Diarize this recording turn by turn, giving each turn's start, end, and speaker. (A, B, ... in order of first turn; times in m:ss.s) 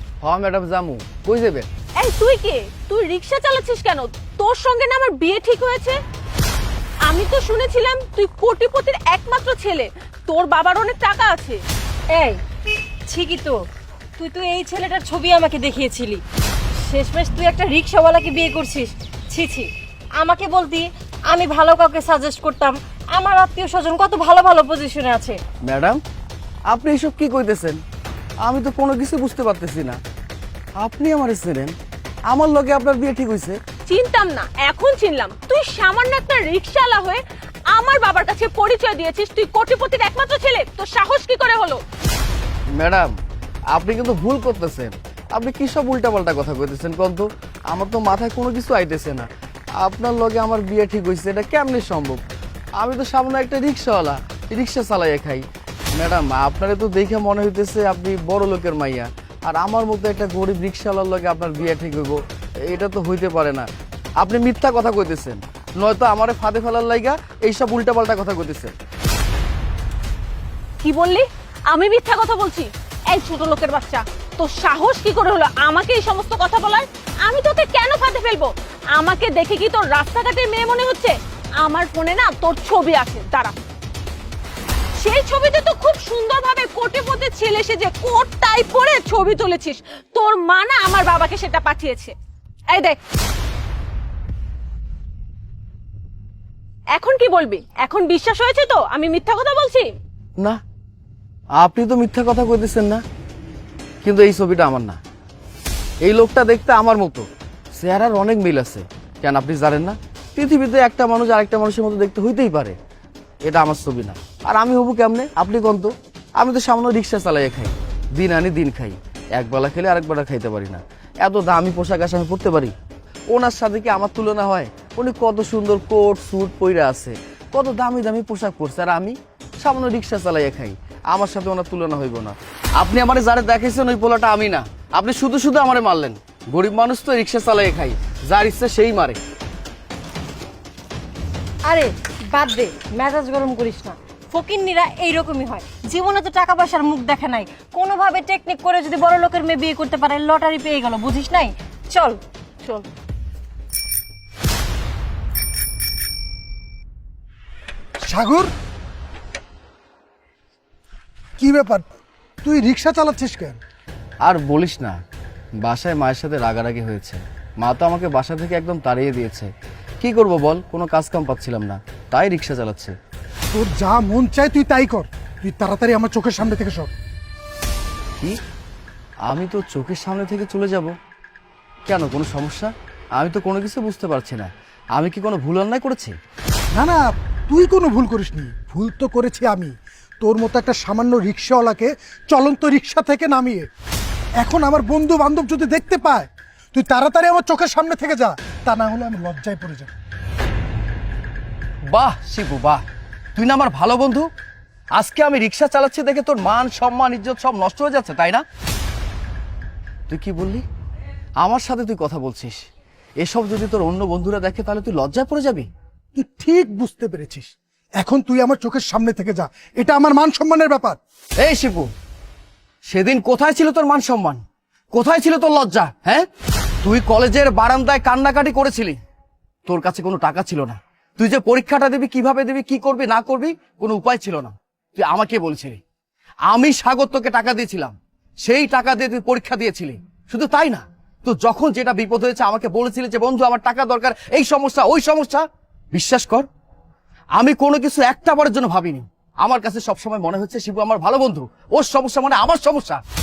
0:00.2-0:01.7 A
0:02.0-0:06.0 B
0:07.1-0:11.6 B
0:12.1-0:12.4 C
0:13.1-0:13.6 C
0:14.2-0:16.2 C
0:16.8-0:25.4 C
0:25.6-0:26.0 A
0:26.7-0:27.8 A
0:28.4-0:30.0 A
0:30.8-0:31.7 A
0:32.3-0:33.6 A
0:33.9-0:41.8 B
0:42.7-0:43.1 A
0:43.7-0:49.3 A
0:49.8-0:52.2 A
0:52.8-0:55.4 A
0:56.0-1:03.7 A
1:04.2-1:08.7 A
1:10.8-1:23.5 B
1:25.0-1:32.1 B
1:32.7-1:33.0 B
1:37.0-1:39.9 B
1:41.6-1:43.0 A
1:44.0-1:45.0 A
1:46.0-1:47.2 A
1:47.8-1:52.8 A
1:53.4-2:02.7 A
2:03.3-2:19.2 A
2:21.6-2:32.9 C
2:38.0-2:38.5 D
2:41.4-2:41.9 D
2:42.4-2:43.6 D
2:44.2-2:45.0 A
2:45.6-2:49.5 A
2:50.0-2:52.9 A
2:53.5-2:56.9 D
2:59.3-3:00.9 A
3:01.9-3:06.2 A
3:06.7-3:13.7 D
3:14.4-3:19.9 D
3:21.9-3:22.8 A
3:23.4-3:24.3 A
3:25.0-3:28.4 A
3:30.1-3:30.6 A
3:31.4-3:32.7 A
3:33.2-3:35.7 A
3:36.2-3:41.0 D
3:41.4-3:41.9 A
3:42.9-3:44.4 A
3:44.9-3:46.3 A
3:46.8-3:49.0 A
3:49.7-3:55.8 A
3:56.5-4:06.5 A
4:07.4-4:13.0 A